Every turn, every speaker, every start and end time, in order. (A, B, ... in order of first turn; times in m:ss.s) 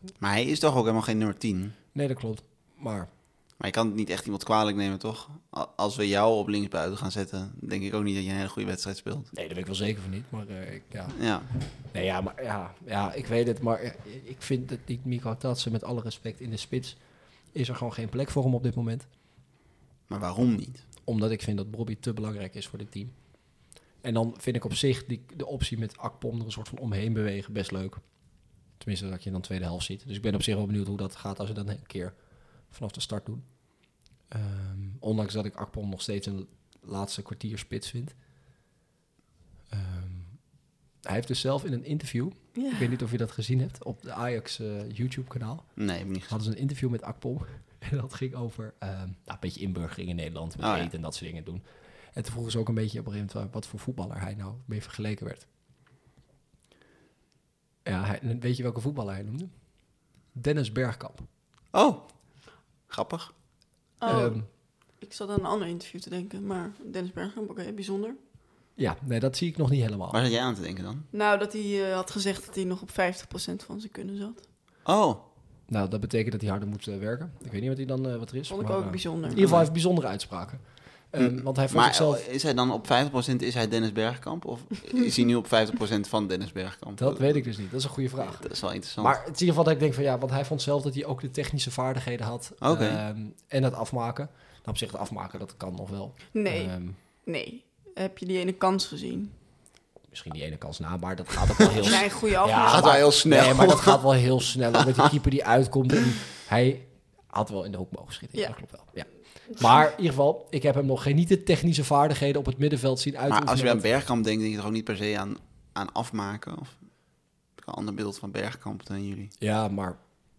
0:00.2-0:01.8 A
0:01.9-0:03.1 B
0:03.6-0:09.3 A
0:09.3-0:19.1 B
0:11.1-0:11.5 A
0:20.1-0:20.8 A
0:21.0-0:23.2 B
0:24.0-0:28.0 B
0:28.7-0:38.2 B
0:39.7-0:55.5 B
0:42.5-0:42.9 C
0:45.8-0:46.3 A
0:50.6-0:50.9 A
0:57.8-0:59.5 B
1:00.3-1:01.3 B
1:01.7-1:02.3 A
1:02.9-1:03.3 A
1:04.0-1:08.2 C
1:04.0-1:04.5 B
1:08.8-1:10.2 B
1:10.1-1:11.1 A
1:11.1-1:14.4 C
1:14.8-1:15.2 A
1:15.7-1:22.2 B
1:18.5-1:19.5 C
1:19.3-1:19.7 A
1:21.2-1:27.5 A
1:27.0-1:37.0 B
1:28.4-1:29.2 A
1:32.6-1:33.0 A
1:36.3-1:39.3 C
1:40.1-1:53.9 B
1:41.8-1:43.1 C
1:42.6-1:44.0 A
1:53.3-1:56.9 A
1:57.6-1:59.3 A
1:59.4-2:00.0 B